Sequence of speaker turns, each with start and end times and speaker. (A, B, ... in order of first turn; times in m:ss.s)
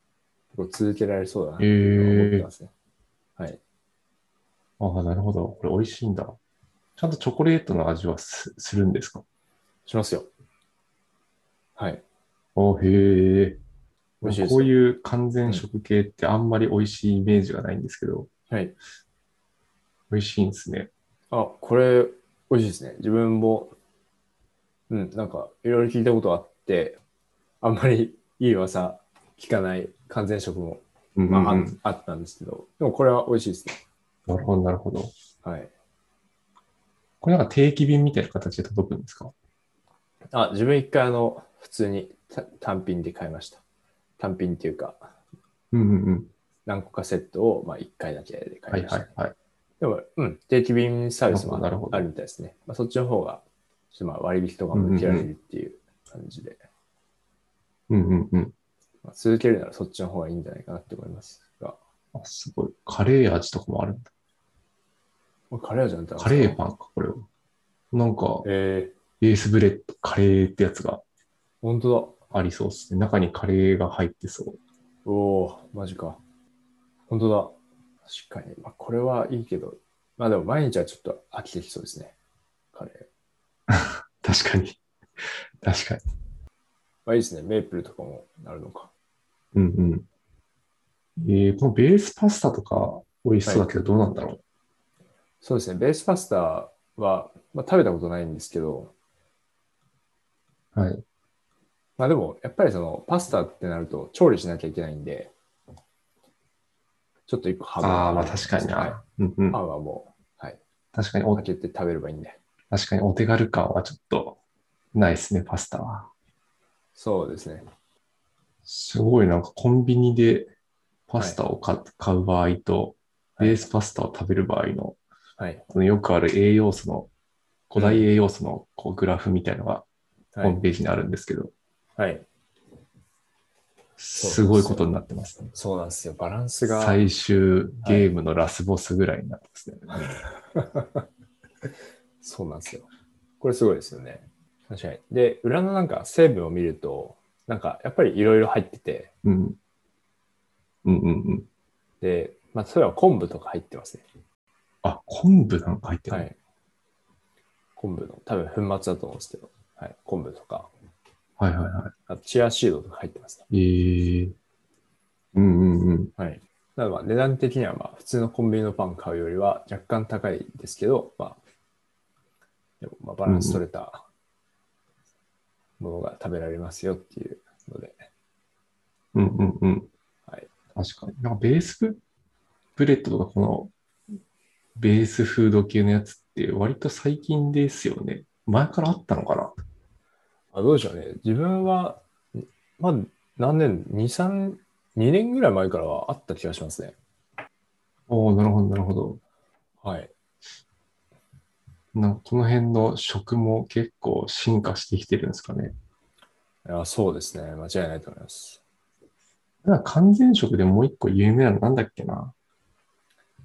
0:00.5-0:02.7 A
0:01.6-0:02.5 B
0:04.8-0:06.4 B
0:07.0-0:09.2 B
0:09.9-0:10.3 A
0:11.8-0:12.0 A
0:12.6-0:13.6 B
0:14.2-0:18.3 B
0:14.2-0:14.8 A
0:20.1-0:20.9 B
0:21.3-0:23.8 A
0:24.9-0:27.0 A
0:27.6-0:33.8 A
0:31.2-0:31.8 B
0:34.3-0:35.1 B
0:35.4-0:35.7 A
0:37.2-0:39.3 B
0:40.3-0:43.6 A
0:44.2-0:45.1 A
0:45.7-0:46.3 B
0:46.7-0:49.1 A
0:48.7-0:49.3 B
0:49.8-0:56.6 A
0:51.3-0:52.1 B
0:54.7-0:55.3 B
0:57.9-0:58.5 B
0:59.0-1:01.8 A
1:02.2-1:04.1 B
1:05.5-1:06.6 A
1:06.2-1:07.3 B
1:07.9-1:08.5 B
1:08.4-1:08.9 A
1:09.2-1:11.0 B
1:11.6-1:12.2 A
1:12.3-1:14.6 B
1:15.0-1:16.2 A
1:17.1-1:22.2 A
1:22.7-1:23.1 A
1:23.7-1:24.8 B
1:25.6-1:26.0 B
1:27.1-1:28.9 A
1:29.5-1:30.1 B
1:31.2-1:34.4 B
1:33.5-1:33.8 A
1:35.4-1:38.9 A
1:40.8-1:41.0 B
1:42.0-1:45.3 A
1:47.3-1:49.0 A
1:47.8-1:49.6 B
1:49.5-1:50.6 A
1:50.9-1:51.4 B
1:51.3-1:52.4 A
1:52.7-1:54.4 B
1:54.9-1:56.1 B
1:57.0-1:57.6 A
1:58.7-2:00.5 B
2:01.1-2:05.0 B
2:05.7-2:07.1 B
2:07.7-2:09.8 B
2:07.8-2:08.1 A
2:10.3-2:10.6 A
2:10.4-2:11.5 B
2:12.0-2:12.3 A
2:14.0-2:15.5 B
2:14.2-2:14.9 A
2:15.5-2:17.0 A
2:16.7-2:20.2 B
2:20.2-2:21.0 A
2:22.2-2:22.9 A
2:23.4-2:29.1 A
2:29.2-2:29.6 B
2:30.8-2:31.5 B
2:32.0-2:34.0 A
2:34.8-2:36.3 B
2:36.1-2:36.4 A
2:37.8-2:40.7 A
2:41.4-2:41.9 B
2:42.1-2:43.5 A
2:43.5-2:44.4 B
2:45.3-2:46.1 B
2:46.2-2:51.4 A
2:52.8-2:54.0 A
2:53.3-2:53.6 B
2:55.8-2:58.0 A
2:59.2-2:59.9 B
3:00.8-3:02.0 B
3:02.8-3:03.7 B
3:04.8-3:09.5 B
3:10.5-3:17.0 A
3:18.1-3:19.2 B
3:19.8-3:20.1 A
3:21.9-3:25.7 B
3:26.6-3:28.6 A
3:29.6-3:32.3 B